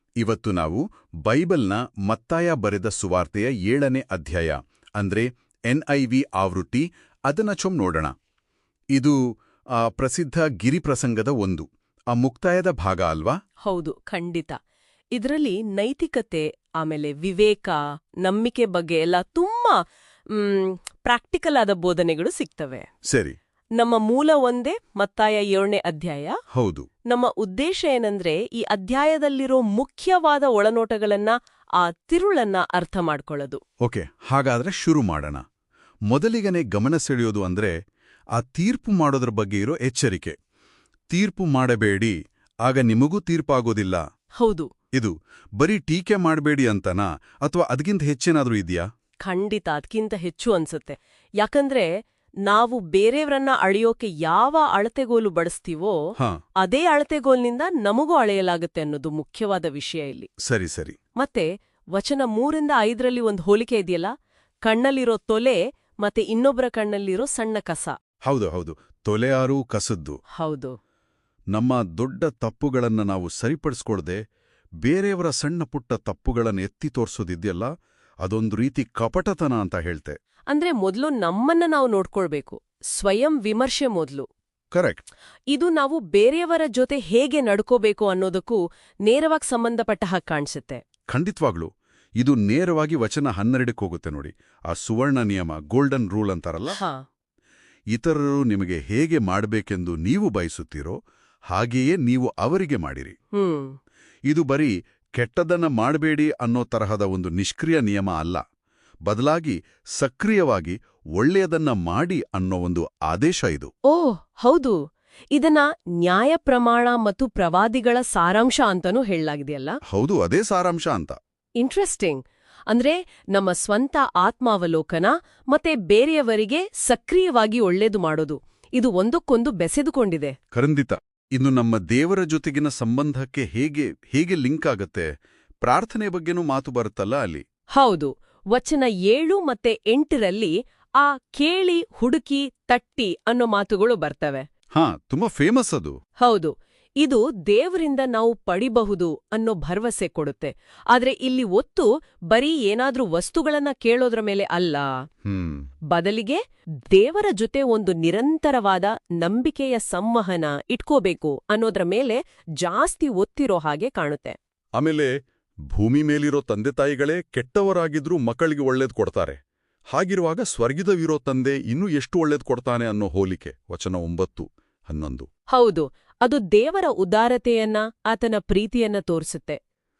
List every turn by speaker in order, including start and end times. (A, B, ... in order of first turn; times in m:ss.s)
0:00.2-0:08.1 A
0:09.8-0:13.4 A
0:13.6-0:14.6 B
0:15.1-0:19.8 B
0:20.3-0:22.9 B
0:23.1-0:23.4 A
0:23.8-0:26.4 B
0:26.5-0:26.9 A
0:27.1-0:33.6 B
0:33.8-0:35.4 A
0:36.1-0:37.8 A
0:38.4-0:40.4 A
0:41.1-0:42.1 A
0:42.7-0:44.0 A
0:44.4-0:44.7 B
0:45.0-0:48.8 A
0:49.2-0:51.9 B
0:52.4-0:56.0 B
0:56.6-1:00.3 B
1:00.4-1:01.0 A
1:01.2-1:04.1 B
1:04.7-1:08.0 B
1:08.3-1:10.2 A
1:10.4-1:10.8 B
1:11.5-1:14.2 A
1:14.8-1:17.7 A
1:18.2-1:20.2 A
1:20.5-1:24.3 B
1:24.7-1:25.0 A
1:25.5-1:30.8 B
1:31.1-1:36.8 A
1:36.7-1:37.0 B
1:37.9-1:41.0 A
1:41.5-1:43.1 A
1:43.4-1:43.8 B
1:44.3-1:48.4 A
1:49.0-1:53.7 A
1:53.9-1:54.8 B
1:55.3-1:59.8 B
1:59.9-2:01.2 A
2:01.6-2:10.4 B
2:10.5-2:15.1 A
2:15.6-2:17.4 A
2:17.8-2:24.4 B
2:24.7-2:26.0 A
2:26.2-2:34.9 B
2:35.2-2:35.7 A
2:35.9-2:36.4 B
2:36.9-2:44.4 B
2:44.8-2:45.1 A
2:45.7-2:49.4 A
2:49.9-2:55.3 A
2:55.5-2:59.6 B